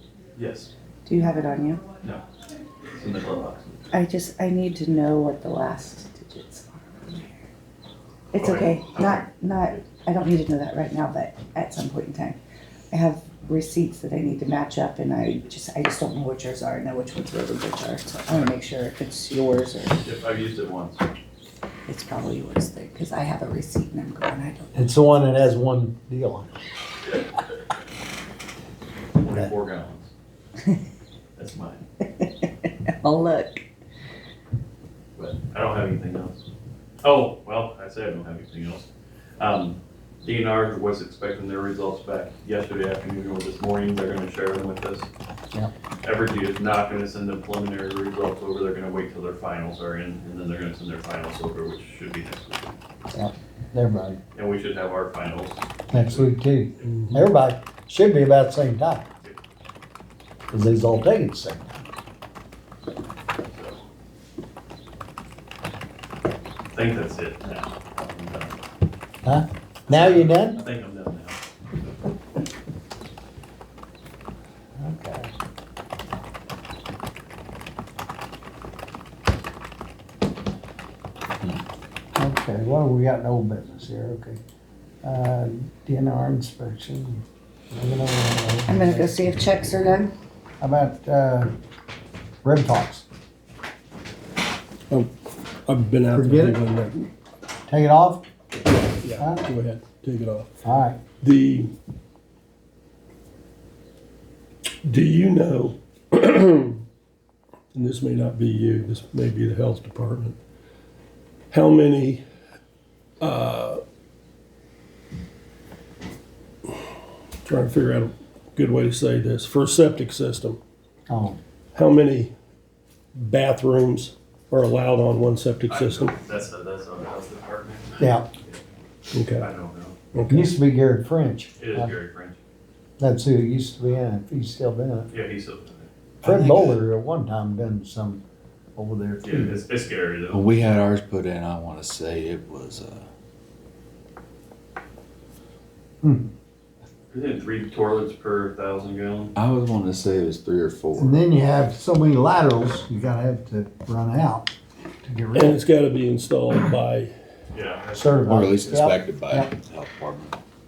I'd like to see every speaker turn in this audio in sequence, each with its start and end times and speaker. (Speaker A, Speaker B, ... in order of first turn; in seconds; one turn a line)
Speaker A: 0.3-0.7
Speaker B: 1.1-1.8
Speaker A: 2.9-3.9
Speaker B: 3.9-7.5
Speaker B: 8.3-12.4
Speaker A: 8.4-9.8
Speaker B: 12.9-20.0
Speaker A: 20.0-21.0
Speaker B: 21.9-24.9
Speaker C: 24.7-26.6
Speaker A: 29.2-30.1
Speaker A: 31.4-31.8
Speaker B: 32.2-33.6
Speaker A: 35.1-36.4
Speaker A: 37.0-38.9
Speaker A: 39.4-45.1
Speaker A: 46.0-52.8
Speaker C: 53.1-54.2
Speaker A: 54.3-56.3
Speaker C: 55.9-59.1
Speaker D: 56.8-57.2
Speaker C: 60.5-61.8
Speaker A: 63.4-63.8
Speaker A: 66.7-68.6
Speaker C: 69.2-70.6
Speaker A: 69.9-71.4
Speaker C: 74.8-75.3
Speaker C: 82.2-84.4
Speaker C: 85.0-89.3
Speaker B: 88.7-90.1
Speaker C: 90.6-91.5
Speaker C: 92.4-93.0
Speaker D: 95.7-97.1
Speaker C: 96.1-96.6
Speaker C: 97.7-98.2
Speaker D: 98.9-100.5
Speaker C: 99.2-99.4
Speaker C: 100.6-101.0
Speaker D: 101.2-101.7
Speaker D: 104.8-106.8
Speaker D: 107.7-110.4
Speaker D: 111.5-112.2
Speaker D: 113.2-113.8
Speaker D: 117.4-120.6
Speaker C: 121.1-121.4
Speaker D: 121.7-122.3
Speaker D: 123.2-126.1
Speaker A: 125.7-128.6
Speaker C: 128.0-128.3
Speaker D: 129.1-129.5
Speaker A: 129.4-129.9
Speaker D: 130.1-130.5
Speaker C: 130.3-131.9
Speaker A: 131.6-132.4
Speaker C: 133.0-135.1
Speaker A: 135.1-135.9
Speaker C: 136.2-138.2
Speaker E: 136.2-136.8
Speaker C: 138.8-139.4
Speaker A: 139.2-140.5
Speaker E: 140.3-143.1
Speaker C: 146.0-146.3
Speaker A: 147.1-149.3
Speaker E: 149.3-151.2
Speaker C: 150.9-154.5
Speaker C: 155.0-155.6
Speaker D: 155.3-157.1
Speaker A: 157.5-158.3
Speaker C: 157.9-159.5
Speaker E: 158.2-160.4